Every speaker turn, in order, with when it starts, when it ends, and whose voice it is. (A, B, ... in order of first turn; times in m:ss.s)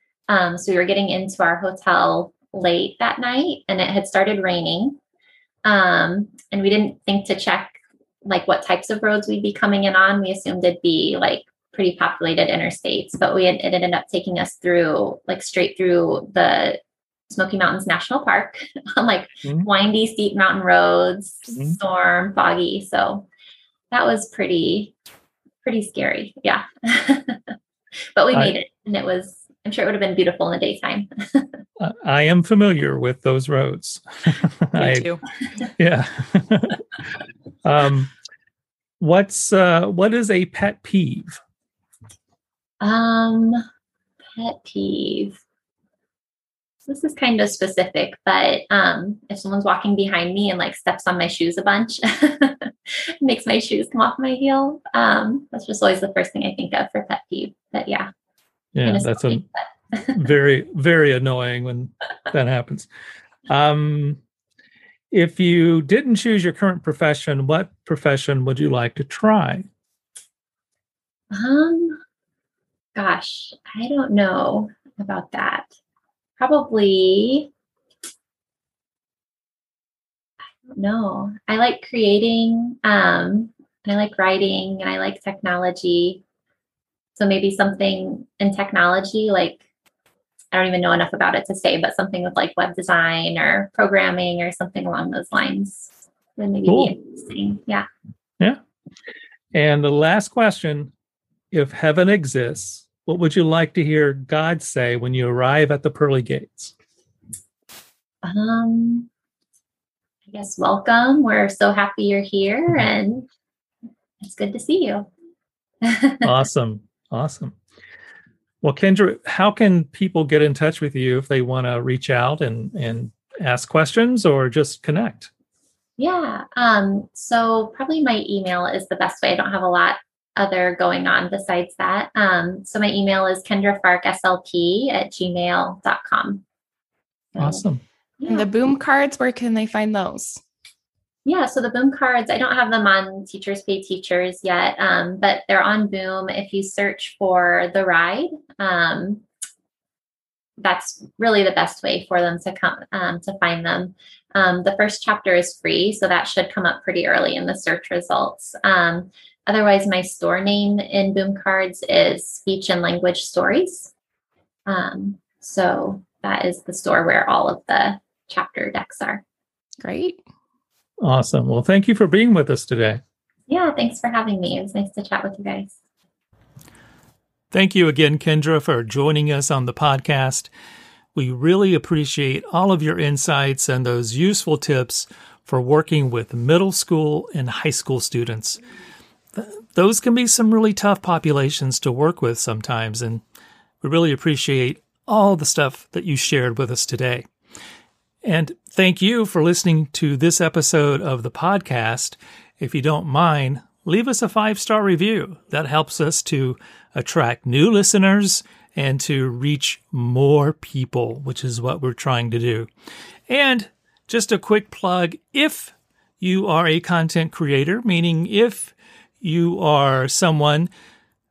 0:00.3-0:05.0 A
0:05.6-0:23.3 A
0:23.9-0:24.9 A
0:25.6-0:27.6 A
0:28.2-0:31.6 A
0:31.8-0:35.1 B
0:34.8-0:35.2 C
0:35.8-0:36.8 B
0:37.6-0:38.1 B
0:39.0-0:41.4 B
0:42.8-0:43.6 A
0:44.4-0:45.4 A
0:46.9-0:58.1 A
0:58.8-0:59.4 B
0:58.8-1:00.2 A
1:00.1-1:02.9 B
1:03.5-1:04.2 B
1:05.1-1:09.7 B
1:11.3-1:12.0 A
1:13.0-1:15.7 A
1:16.4-1:17.5 A
1:20.7-1:26.2 A
1:27.2-1:29.6 A
1:30.5-1:37.9 A
1:36.7-1:37.0 B
1:39.5-1:40.9 B
1:41.5-1:46.7 B
1:48.2-1:49.1 A
1:50.3-1:53.3 A
1:54.2-1:55.1 A
1:55.8-1:56.3 A
1:56.2-1:57.6 B
1:58.6-2:05.3 B
2:06.0-2:16.4 A
2:17.4-2:17.6 A
2:17.4-2:17.8 B
2:18.2-2:18.5 A
2:18.3-2:20.4 C
2:21.2-2:29.2 A
2:30.6-2:43.9 A
2:44.7-2:49.2 A
2:49.8-2:50.2 C
2:51.0-2:53.0 B
2:53.5-2:55.8 A
2:57.5-3:00.5 B
3:01.2-3:08.6 B
3:09.4-3:13.2 B
3:13.8-3:17.3 B
3:18.2-3:32.7 B
3:33.3-3:40.7 B